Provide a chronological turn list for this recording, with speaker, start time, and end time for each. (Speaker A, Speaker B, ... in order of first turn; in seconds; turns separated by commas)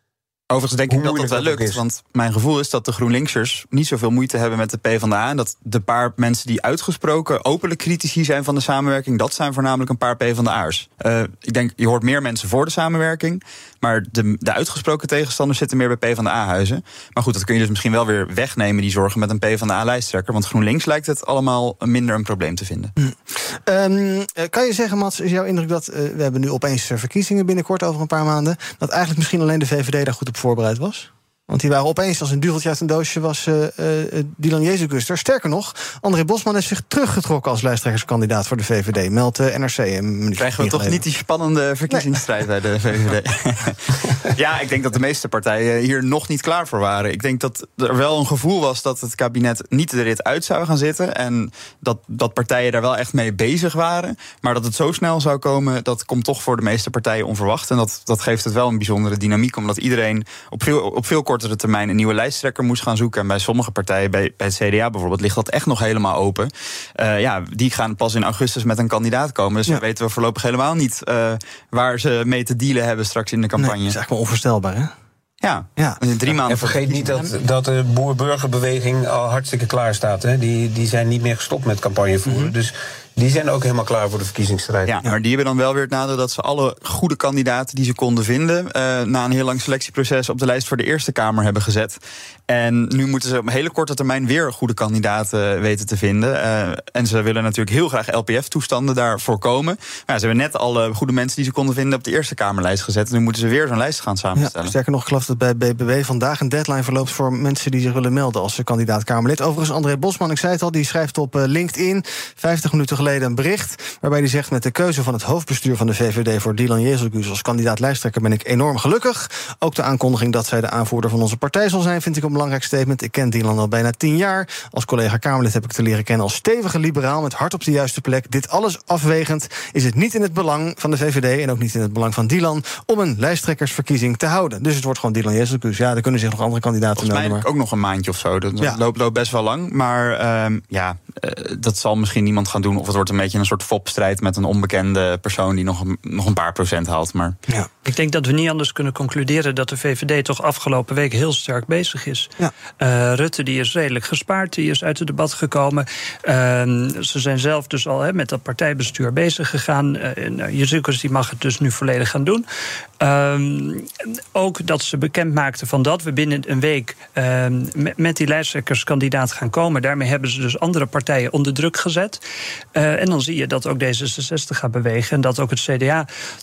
Speaker A: 0.5-22.9, Speaker B: 0.9-1.8, Speaker C: 23.0-41.0, Speaker A: 40.4-43.8, Speaker A: 44.4-74.0, Speaker C: 73.6-74.9, Speaker A: 75.4-76.8, Speaker B: 76.5-85.0, Speaker A: 84.8-104.7, Speaker C: 104.4-137.4, Speaker A: 137.0-147.4, Speaker D: 147.8-162.4, Speaker D: 163.0-172.2, Speaker D: 172.7-176.1